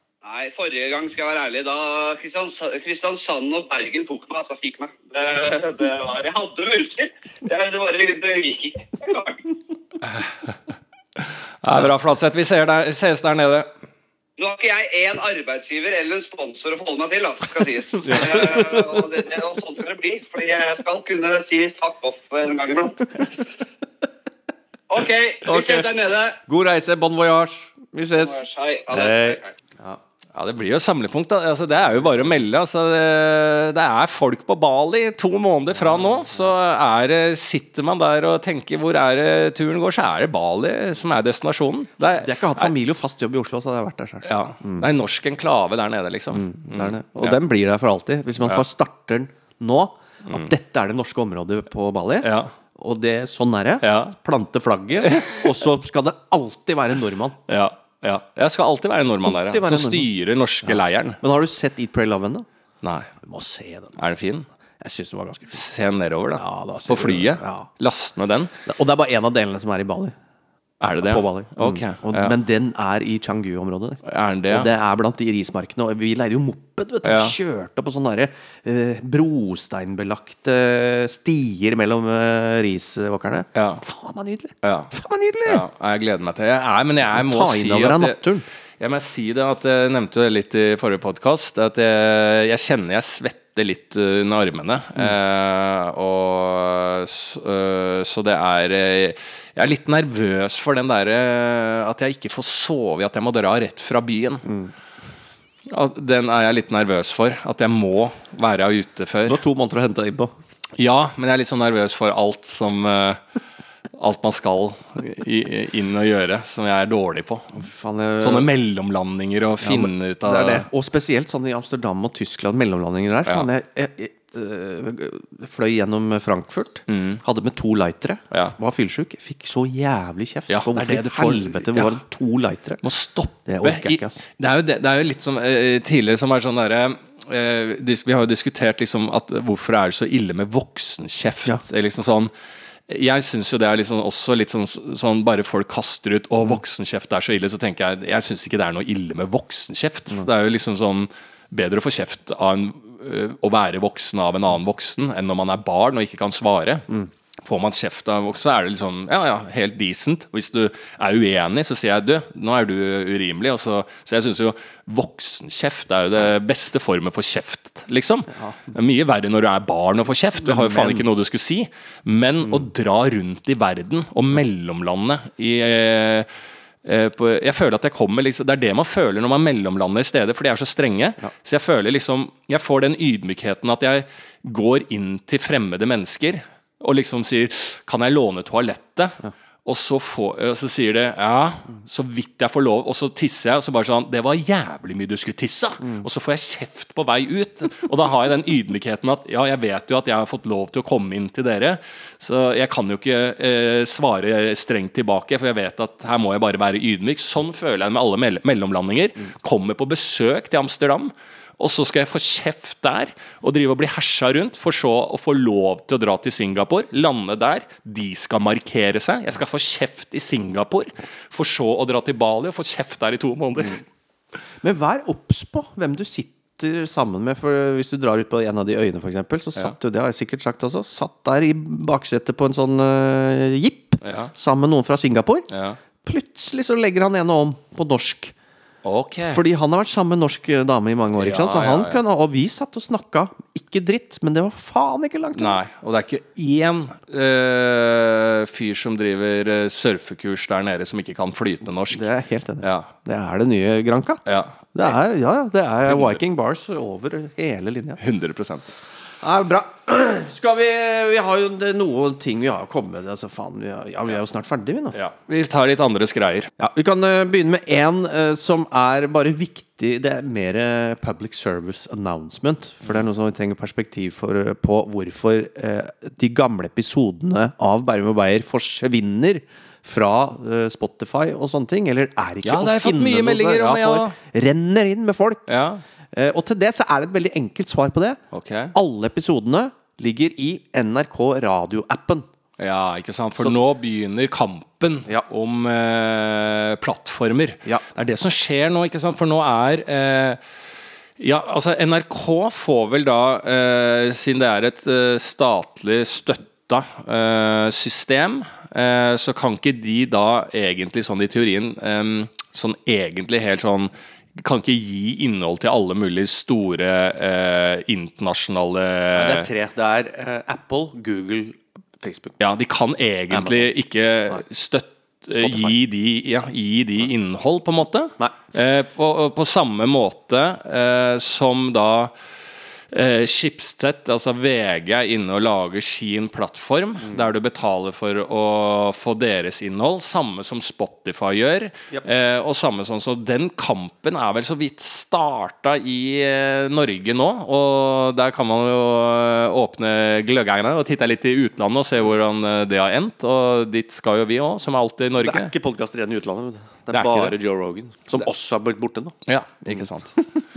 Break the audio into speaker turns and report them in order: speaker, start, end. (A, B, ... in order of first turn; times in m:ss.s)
0:00.2-0:09.6 A
0:11.6-0:13.7 B
0:14.4-0:23.3 A
0:18.1-0:19.0 C
0:24.9-0:26.4 A
0:25.4-0:30.0 C
0:28.2-0:29.5 A
0:30.3-0:42.7 B
0:35.9-0:36.2 C
0:42.2-0:44.9 C
0:44.2-0:47.4 B
0:46.3-0:57.4 C
0:52.2-0:52.5 B
0:53.8-0:54.1 B
0:55.0-0:55.5 B
0:57.5-1:01.2 B
0:59.2-1:00.1 C
1:00.6-1:02.4 C
1:02.8-1:03.1 B
1:03.2-1:04.1 C
1:04.0-1:04.5 B
1:04.8-1:05.6 C
1:05.5-1:08.5 B
1:06.4-1:07.7 C
1:08.6-1:10.2 C
1:10.8-1:12.3 B
1:11.0-1:25.6 C
1:14.0-1:14.7 B
1:17.0-1:17.4 B
1:23.5-1:23.8 B
1:24.6-1:24.9 B
1:25.4-1:28.2 B
1:27.1-1:28.4 C
1:28.8-1:44.4 B
1:44.4-1:44.7 C
1:45.7-1:49.4 B
1:49.2-1:50.3 C
1:50.8-1:53.2 B
1:53.9-1:57.7 B
1:57.6-1:58.5 C
1:58.2-2:00.7 B
1:59.6-2:12.8 C
2:06.9-2:07.2 B
2:10.5-2:12.0 B
2:12.8-2:22.3 B
2:13.4-2:14.2 C
2:22.9-2:36.9 B
2:37.4-2:56.3 B
2:48.3-2:48.7 C
2:50.4-2:51.0 C
2:56.8-3:43.8 B
3:44.6-3:55.5 C
3:54.0-3:54.3 B
3:55.5-3:55.8 B
3:56.0-3:58.3 C
3:58.8-3:59.4 B
3:59.3-4:05.6 C
4:01.2-4:02.0 B
4:05.3-4:12.1 B
4:11.9-4:18.0 C
4:12.6-4:12.9 B
4:14.2-4:14.9 B
4:15.9-4:16.2 B
4:18.0-4:18.7 B
4:19.2-4:25.0 C
4:24.9-4:26.5 B
4:26.6-4:45.4 C
4:42.4-4:44.2 B
4:45.5-4:45.8 B
4:46.1-4:48.2 C
4:48.3-4:48.7 B
4:48.7-4:52.3 C
4:52.6-5:00.4 B
5:01.2-5:19.5 B
5:19.1-5:22.4 C
5:22.4-5:32.1 B
5:23.3-5:23.7 C
5:25.3-5:25.7 C
5:32.9-5:55.5 B
5:55.2-6:00.3 C
5:56.9-5:57.3 B
5:59.2-6:00.1 B